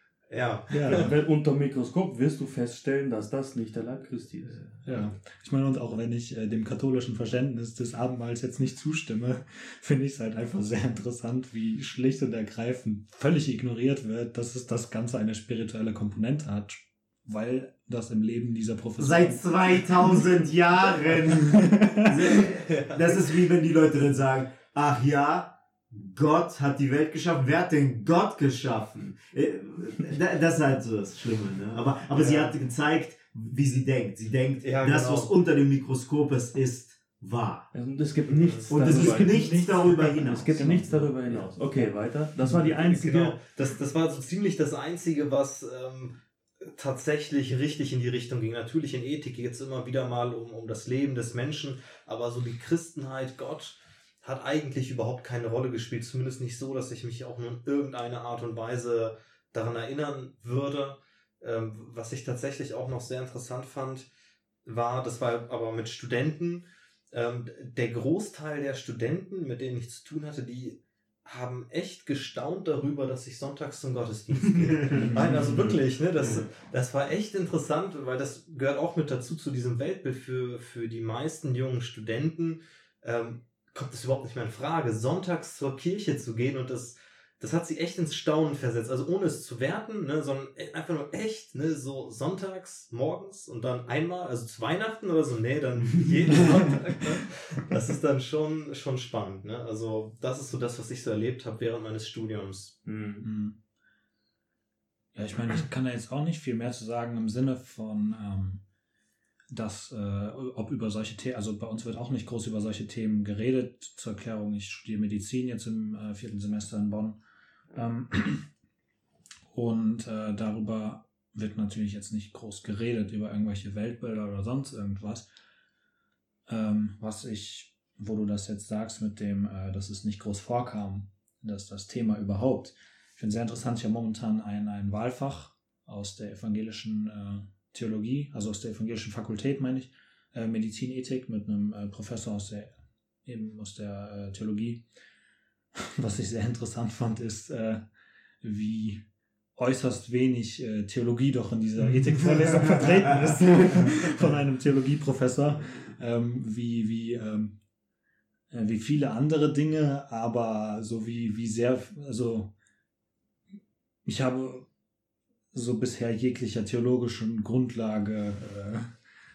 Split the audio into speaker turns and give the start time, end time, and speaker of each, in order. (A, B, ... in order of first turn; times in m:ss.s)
0:00.3-0:01.1 A
0:00.7-0:01.1 B
0:00.8-0:04.7 C
0:04.8-0:20.2 B
0:19.0-0:37.7 D
0:21.6-0:22.4 B
0:22.6-0:23.2 A
0:32.2-0:32.6 A
0:34.6-0:35.3 A
0:37.7-0:43.4 C
0:38.3-0:38.8 A
0:38.7-0:41.5 D
0:38.9-0:40.9 B
0:42.4-1:04.1 A
1:04.6-1:42.8 A
1:14.9-1:15.8 B
1:42.8-1:43.2 C
1:43.2-1:43.6 B
1:45.2-1:48.6 B
1:49.5-1:57.2 B
1:57.7-1:58.5 B
1:59.5-2:05.3 B
2:06.5-2:24.8 B
2:25.8-2:27.8 B
2:28.4-2:29.0 B
2:29.6-2:37.6 B
2:31.8-2:34.0 D
2:38.5-2:42.5 B
2:44.0-2:44.7 B
2:45.5-2:48.9 B